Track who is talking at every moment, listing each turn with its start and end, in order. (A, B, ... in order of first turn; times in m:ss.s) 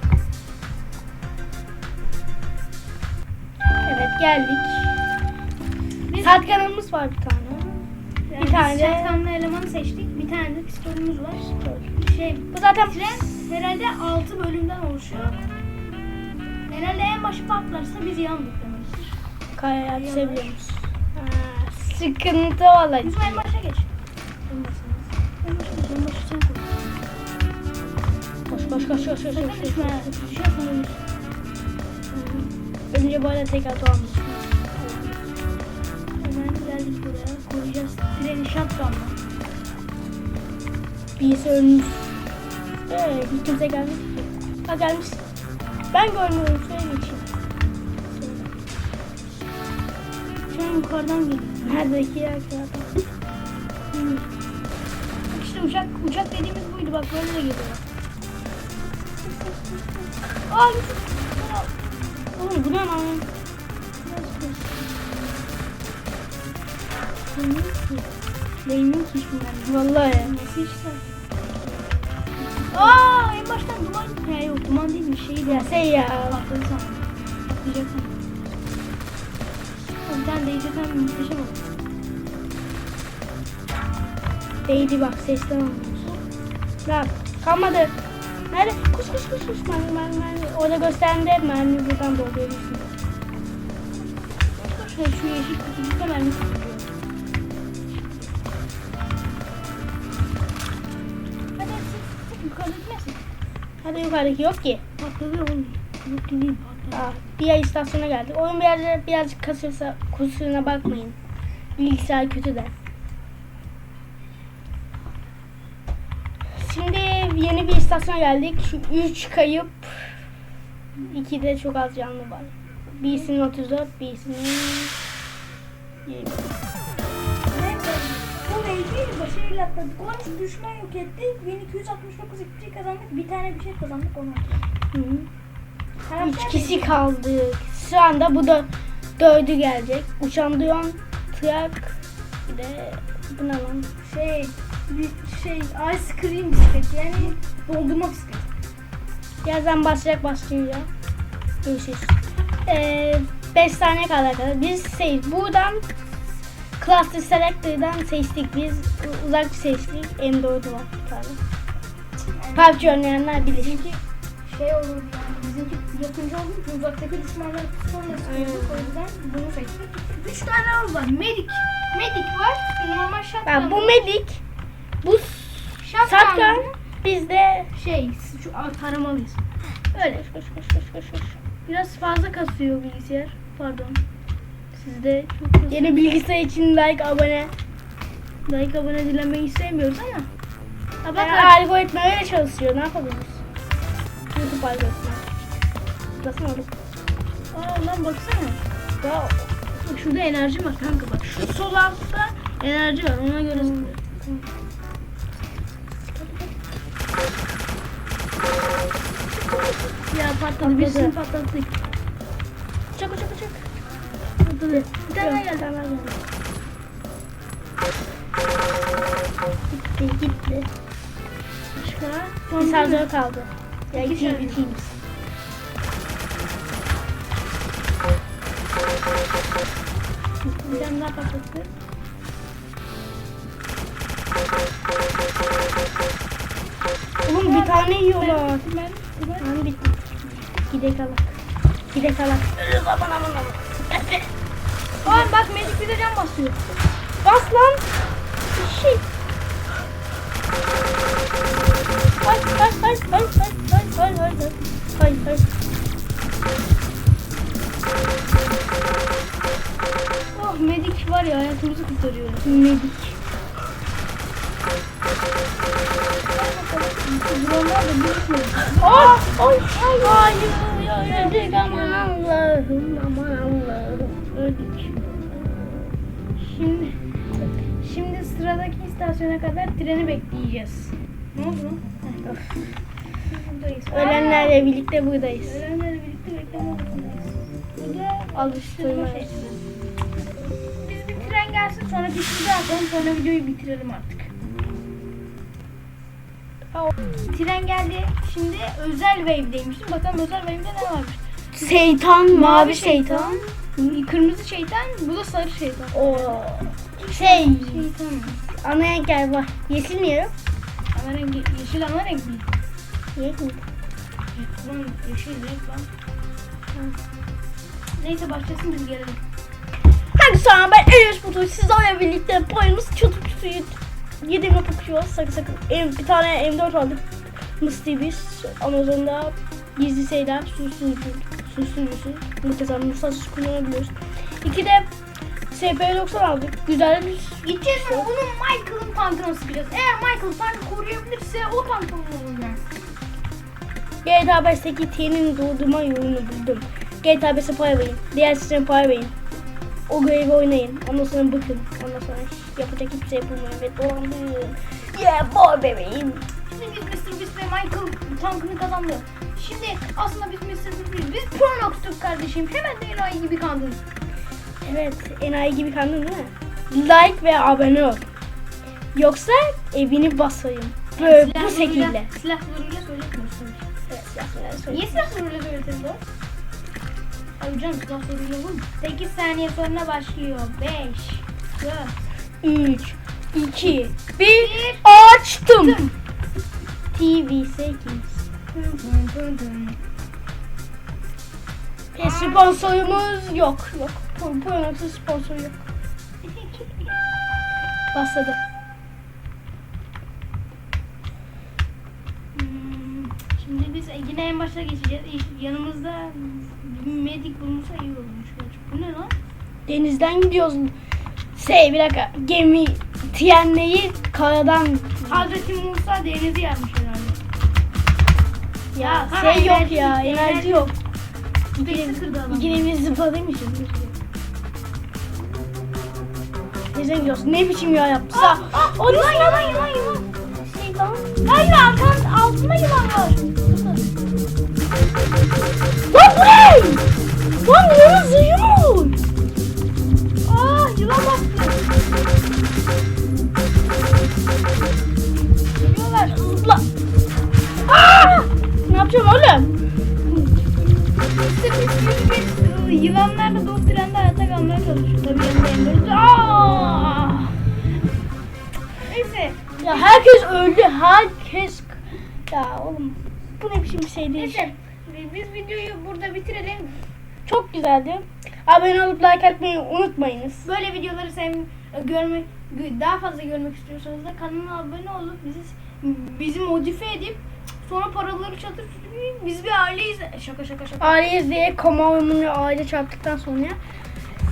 0:03.8-0:05.0 A
0:06.1-0:06.6 B
0:06.2-0:07.8 A
0:08.3-0:15.4 B
0:08.4-0:09.2 A
0:11.6-0:11.9 A
0:12.5-0:13.3 A
0:16.7-0:19.2 B
0:19.6-0:23.4 A
0:19.9-0:20.6 B
0:23.0-0:23.9 B
0:24.5-0:25.1 A
0:25.4-0:26.8 B
0:28.5-0:30.3 A
0:29.2-0:31.0 B
0:32.1-0:35.4 A
0:36.2-0:39.2 B
0:41.2-0:42.2 A
0:42.9-0:44.1 A
0:44.6-0:45.2 A
0:45.9-0:47.3 A
0:48.1-0:48.5 A
0:50.5-0:51.8 B
0:51.6-0:52.9 A
0:53.9-0:54.2 A
0:55.3-0:57.8 B
1:00.5-1:01.7 B
1:02.4-1:03.3 A
1:04.0-1:04.8 B
1:07.3-1:08.0 B
1:08.6-1:11.2 B
1:09.6-1:10.3 A
1:12.6-1:18.1 B
1:15.4-1:16.4 A
1:20.1-1:21.6 B
1:24.6-1:26.1 A
1:26.8-1:27.9 A
1:28.5-1:32.9 A
1:34.5-1:36.9 B
1:37.9-1:38.3 B
1:41.6-1:43.2 B
1:43.8-1:44.8 A
1:45.0-1:47.2 B
1:46.9-1:51.2 A
1:51.8-1:52.7 A
1:56.6-2:00.1 A
2:01.0-2:04.9 A
2:06.0-2:06.5 A
2:07.5-2:14.6 B
2:14.9-2:15.3 A
2:16.0-2:17.0 B
2:16.2-2:22.0 A
2:22.5-2:23.9 A
2:24.0-2:28.4 B
2:29.4-2:30.9 A
2:31.6-2:35.8 A
2:36.8-2:41.4 A
2:42.3-2:54.1 B
2:42.6-2:43.8 A
2:48.1-2:48.9 A
2:53.4-2:54.4 A
2:55.0-2:57.7 A
2:55.8-2:56.7 B
2:57.7-2:59.4 B
2:59.9-3:01.4 A
3:00.0-3:00.2 B
3:01.6-3:04.0 B
3:04.7-3:06.0 B
3:05.7-3:07.5 A
3:08.4-3:10.3 B
3:11.0-3:11.6 B
3:11.1-3:13.4 A
3:14.3-3:15.4 A
3:16.2-3:16.7 A
3:17.5-3:18.6 B
3:19.0-3:19.4 A
3:19.8-3:24.0 B
3:23.5-3:24.4 A
3:26.0-3:26.5 A
3:29.3-3:29.9 A
3:30.1-3:31.8 B
3:30.6-3:31.1 A
3:32.9-3:33.6 A
3:34.4-3:35.7 B
3:34.7-3:36.2 A
3:39.7-3:40.7 A
3:41.7-3:43.1 B
3:42.6-3:44.9 A
3:43.9-3:44.7 B
3:50.4-3:50.9 A
3:50.6-3:51.7 B
3:57.2-3:58.6 A
3:57.4-3:59.5 B
3:59.4-4:00.0 A
4:00.5-4:01.3 A
4:01.9-4:04.3 A
4:05.0-4:06.6 B
4:05.0-4:05.3 A
4:07.2-4:07.9 A
4:08.5-4:09.0 A
4:12.2-4:15.4 A
4:20.3-4:22.7 B
4:22.4-4:23.1 A
4:26.2-4:32.0 B
4:28.8-4:35.9 A
4:36.4-4:37.0 B
4:37.8-4:42.2 B
4:42.2-4:42.6 A
4:43.3-4:44.6 B
4:43.9-4:45.6 A
4:45.4-4:49.6 B
4:48.3-4:49.3 A
4:50.8-4:54.3 B
4:57.2-5:01.2 B
5:01.5-5:03.5 A
5:02.3-5:06.4 B
5:05.9-5:07.9 A
5:07.0-5:08.4 B
5:08.5-5:10.3 A
5:10.9-5:12.4 B
5:13.2-5:13.6 A
5:14.3-5:15.9 B
5:18.0-5:19.2 B
5:20.1-5:27.0 A
5:27.6-5:34.9 A
5:35.5-5:38.1 A
5:37.4-5:42.6 B
5:44.0-5:49.1 A
5:49.9-5:56.2 A
5:56.4-6:03.8 B
6:04.6-6:08.0 A
6:08.9-6:12.1 A
6:11.0-6:13.6 B
6:13.9-6:15.1 A
6:14.7-6:16.0 B
6:17.4-6:22.0 B
6:22.4-6:25.8 A
6:24.3-6:24.9 B
6:25.6-6:25.9 B
6:26.9-6:28.2 A
6:28.5-6:29.8 B
6:31.9-6:35.6 A
6:32.0-6:32.7 B
6:36.2-6:37.0 B
6:37.9-6:38.4 A
6:42.3-6:49.1 B
6:49.7-6:50.7 A
6:51.3-6:55.5 A
6:55.1-6:57.2 B
6:58.7-7:00.7 A
6:58.8-7:00.7 B
7:01.6-7:04.0 A
7:01.6-7:02.7 B
7:06.7-7:09.8 A
7:08.1-7:10.1 B
7:10.3-7:11.1 A
7:11.2-7:13.8 B
7:15.9-7:16.8 A
7:17.4-7:19.0 A
7:20.2-7:21.6 B
7:25.6-7:26.4 B
7:26.1-7:26.6 A
7:27.6-7:29.5 A
7:31.0-7:37.1 B
7:35.9-7:37.3 A
7:38.9-7:40.1 B
7:39.6-7:44.5 A
7:44.2-7:46.8 B
7:47.2-7:50.5 A
7:50.4-8:01.0 B
8:00.8-8:03.6 A